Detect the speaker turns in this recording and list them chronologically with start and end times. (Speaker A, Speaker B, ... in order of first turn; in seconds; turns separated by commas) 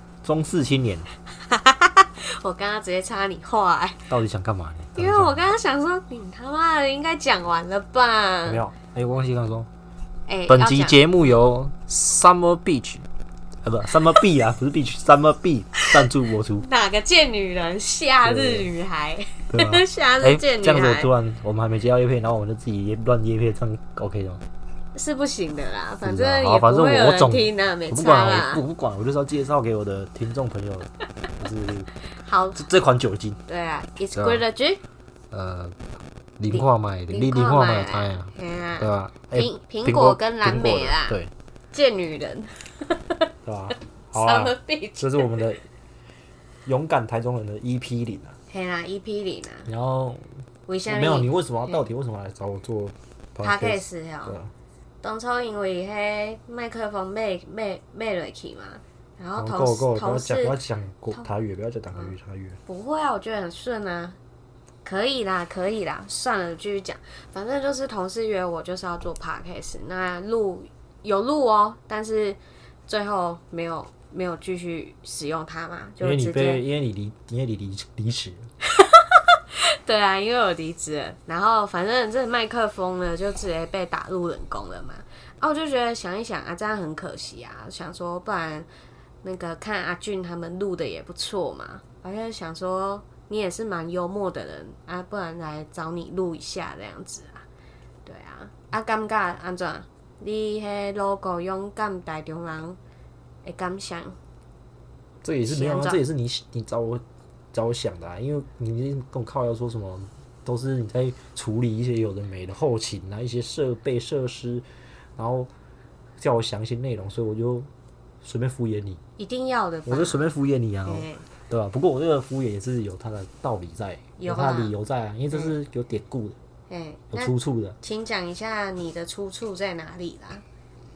Speaker A: 0.2-1.1, Speaker B: 1.4-4.1, Speaker A: 4.1-5.4, Speaker B: 5.0-8.6, Speaker A: 8.5-9.7, Speaker B: 10.3-11.0, Speaker A: 10.5-13.1, Speaker A: 13.6-16.7, Speaker B: 16.0-21.1, Speaker A: 18.2-18.7, Speaker A: 19.5-24.4, Speaker B: 24.9-28.6, Speaker A: 26.0-31.9, Speaker B: 32.2-32.6, Speaker A: 32.5-33.4, Speaker B: 33.5-34.8, Speaker A: 34.1-34.4, Speaker A: 35.3-35.8, Speaker A: 36.4-41.3, Speaker B: 36.5-41.2, Speaker B: 41.7-43.3, Speaker A: 43.5-45.6, Speaker B: 44.1-45.4, Speaker A: 46.6-48.4, Speaker B: 48.5-49.7, Speaker A: 49.7-50.3, Speaker B: 50.7-51.3, Speaker A: 50.9-54.5, Speaker B: 53.4-54.4, Speaker B: 55.0-60.6, Speaker A: 59.4-62.6, Speaker B: 62.7-64.2, Speaker B: 64.8-76.7, Speaker A: 76.0-78.5, Speaker B: 78.7-88.7, Speaker B: 89.2-97.5, Speaker B: 98.0-102.8, Speaker B: 103.5-104.2, Speaker A: 105.2-115.5, Speaker B: 105.5-106.0, Speaker A: 116.2-117.7, Speaker A: 118.2-119.0, Speaker B: 119.2-120.2, Speaker A: 119.9-126.4, Speaker B: 120.8-121.3, Speaker B: 124.2-124.7, Speaker B: 126.7-130.4, Speaker A: 127.1-127.8